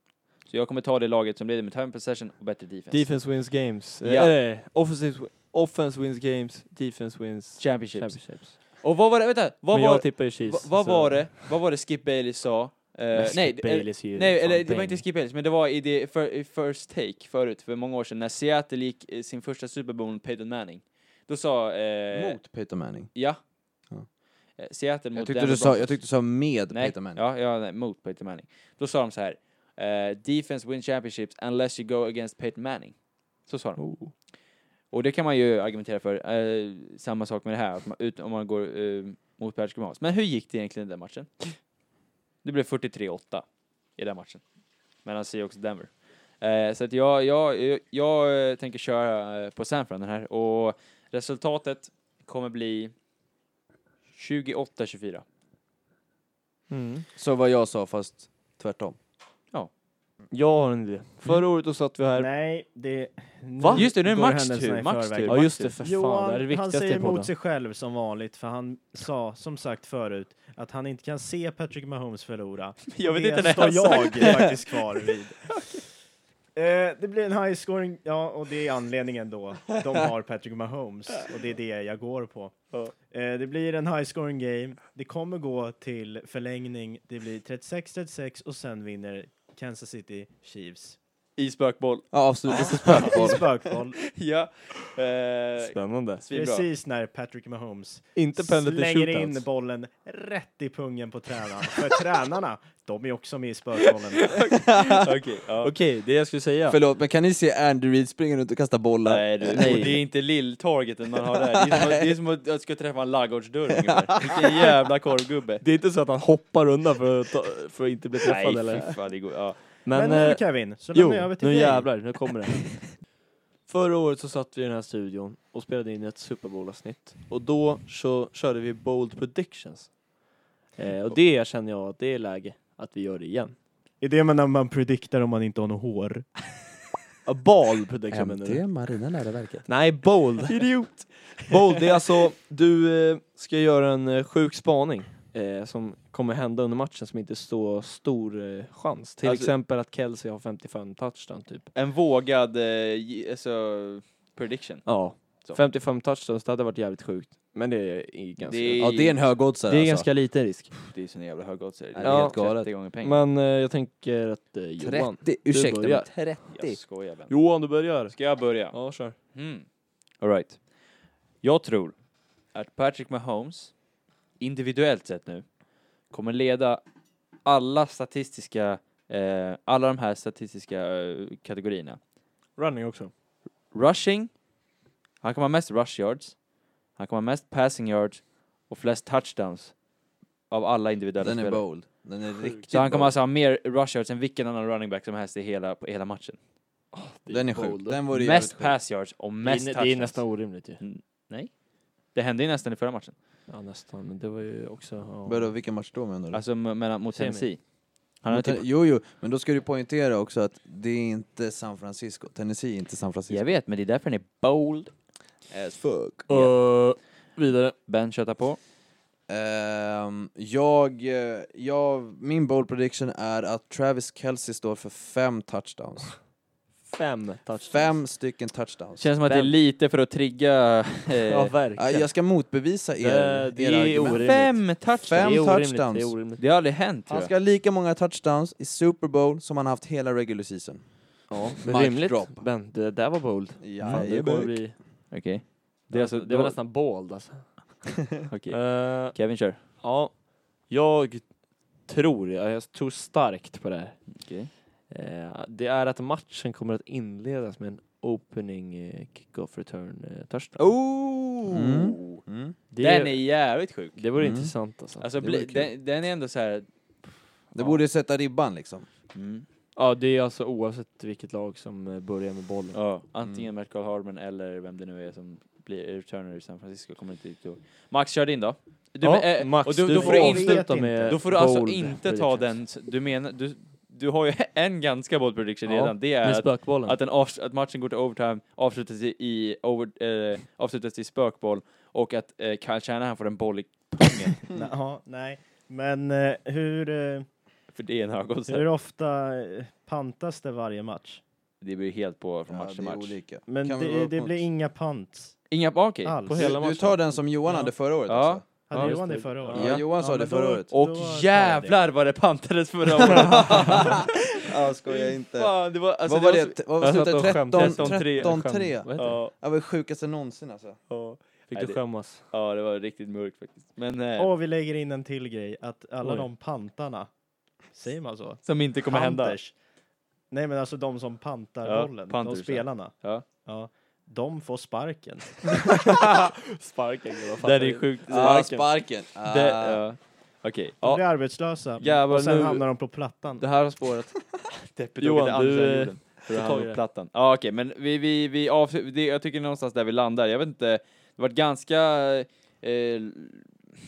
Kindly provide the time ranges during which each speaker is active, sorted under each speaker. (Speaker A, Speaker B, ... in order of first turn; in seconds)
Speaker A: 0.5-3.2, 4.0-4.3, 7.6-22.4, 23.1-23.4, 24.6-26.0, 26.7-33.8, 34.9-41.6, 42.4-43.4, 44.0-44.4, 45.0-52.9, 54.1-55.2, 63.7-65.7, 72.9-75.2, 91.4-93.2, 94.0-96.7, 104.1-105.7, 109.0-115.6, 118.2-119.6, 140.9-141.4, 149.2-149.5, 151.7-155.6, 158.4-159.3, 160.9-163.2, 166.5-169.7, 170.2-170.6, 171.4-172.0, 172.5-173.7, 174.4-175.4, 176.1-176.8, 177.4-182.0, 183.7-184.3, 185.2-186.4, 186.9-189.7, 190.5-191.6, 192.7-196.4, 198.1-201.5, 202.1-203.1, 206.3-207.6, 208.2-208.6, 213.3-214.9, 215.5-216.6, 217.9-218.6, 229.0-231.5, 234.1-235.5, 236.4-237.3, 243.8-244.1, 245.1-246.6, 248.3-249.6, 254.1-254.5, 260.6-262.2, 262.8-264.0, 265.0-266.7, 267.5-267.8, 269.1-269.4, 272.7-294.4, 297.7-298.6, 301.6-303.1, 305.5-306.1, 308.1-309.9, 310.7-314.2, 314.8-317.0, 317.5-318.4, 318.9-319.3, 321.5-324.3, 328.4-329.4, 331.6-333.2, 337.4-338.5, 339.5-342.6, 344.5-353.5
Speaker B: 2.9-8.6, 9.7-11.5, 13.1-15.0, 33.8-34.1, 56.7-57.0, 60.3-62.3, 63.6-63.9, 65.3-67.3, 95.6-96.2, 98.1-99.4, 105.6-106.8, 109.5-110.0, 115.6-119.0, 119.8-122.9, 123.7-130.0, 130.8-133.5, 137.2-138.6, 139.7-151.7, 154.8-160.8, 162.0-166.5, 167.3-169.1, 182.6-183.1, 196.9-198.0, 199.4-200.8, 203.5-205.5, 207.1-207.5, 216.3-217.7, 226.8-228.0, 229.2-229.5, 231.3-232.3, 233.0-236.4, 241.3-245.1, 245.9-247.9, 248.5-254.3, 254.9-260.7, 262.7-265.0, 269.8-272.8, 279.0-282.6, 285.6-287.0, 306.2-307.2, 308.7-309.8, 316.8-319.2, 320.9-322.2, 326.0-326.3, 335.9-339.6, 341.8-342.6, 343.4-344.3, 345.0-346.8
Speaker C: 22.1-23.1, 25.1-27.2, 57.1-59.0, 92.1-93.6, 106.7-109.9, 111.5-112.1, 138.1-139.7, 158.8-160.1, 161.9-162.7, 164.8-166.8, 191.2-193.2, 197.3-198.8, 205.2-206.4, 208.3-213.4, 219.3-226.2, 227.7-229.1, 231.7-236.2, 237.1-242.4, 243.6-244.6, 261.5-262.6, 264.1-264.6, 265.2-265.7, 267.5-268.9, 302.5-304.4, 306.3-308.4, 309.5-310.7, 313.0-320.8, 338.1-339.8
Speaker D: 62.1-75.6, 76.5-91.0, 92.5-94.0, 96.3-104.4, 119.9-122.0, 134.0-136.3, 279.9-281.2, 294.5-297.3, 298.5-301.2, 303.5-305.5, 306.0-306.6, 307.5-307.7, 308.7-311.8, 324.2-327.1, 327.7-329.5, 330.3-335.8, 340.8-343.4